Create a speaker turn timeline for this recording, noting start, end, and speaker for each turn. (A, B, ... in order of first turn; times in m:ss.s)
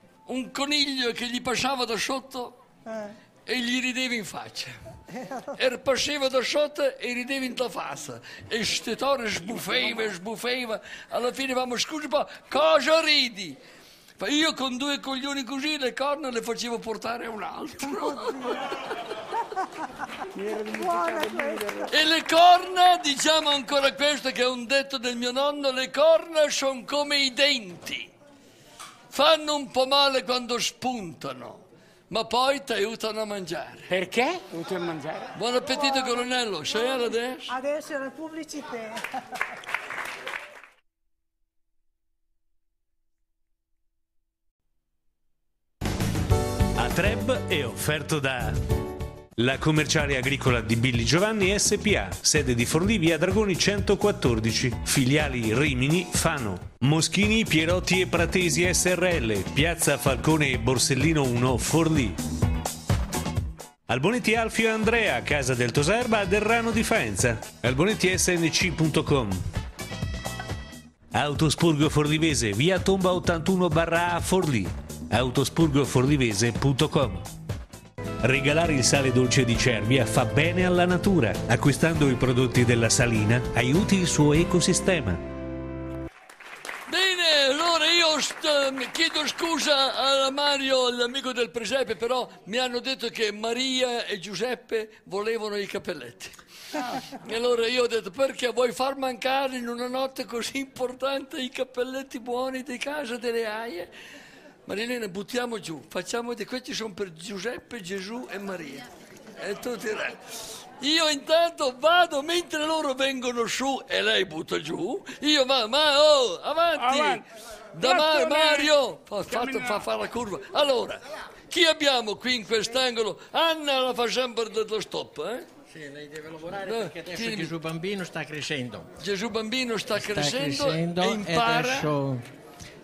0:00.3-0:02.5 A
0:02.9-0:03.1 B
0:03.5-0:04.8 A
0:05.1-0:05.4 B
0:05.6-0:13.6 A
0:14.2-0:18.4 A
0:17.8-0:18.7 B
0:20.3-0:21.9 C
0:20.7-0:21.9 B
0:21.9-0:28.1 A
0:29.1-0:33.9 A
0:33.9-0:35.3 C
0:35.3-0:37.5 A
0:35.6-0:38.9 B
0:46.8-0:48.6 D
0:49.4-1:02.2 D
1:03.9-1:09.4 D
1:11.1-1:17.2 D
1:18.2-1:25.2 D
1:26.9-1:36.3 A
1:37.2-1:43.9 A
1:44.7-1:48.8 A
1:49.4-1:50.2 A
1:50.8-1:57.2 A
1:56.8-1:57.2 C
1:57.7-2:05.4 A
1:57.8-1:58.7 C
1:59.3-1:59.8 C
2:05.7-2:08.9 E
2:06.7-2:07.5 A
2:09.0-2:11.9 A
2:10.0-2:12.2 E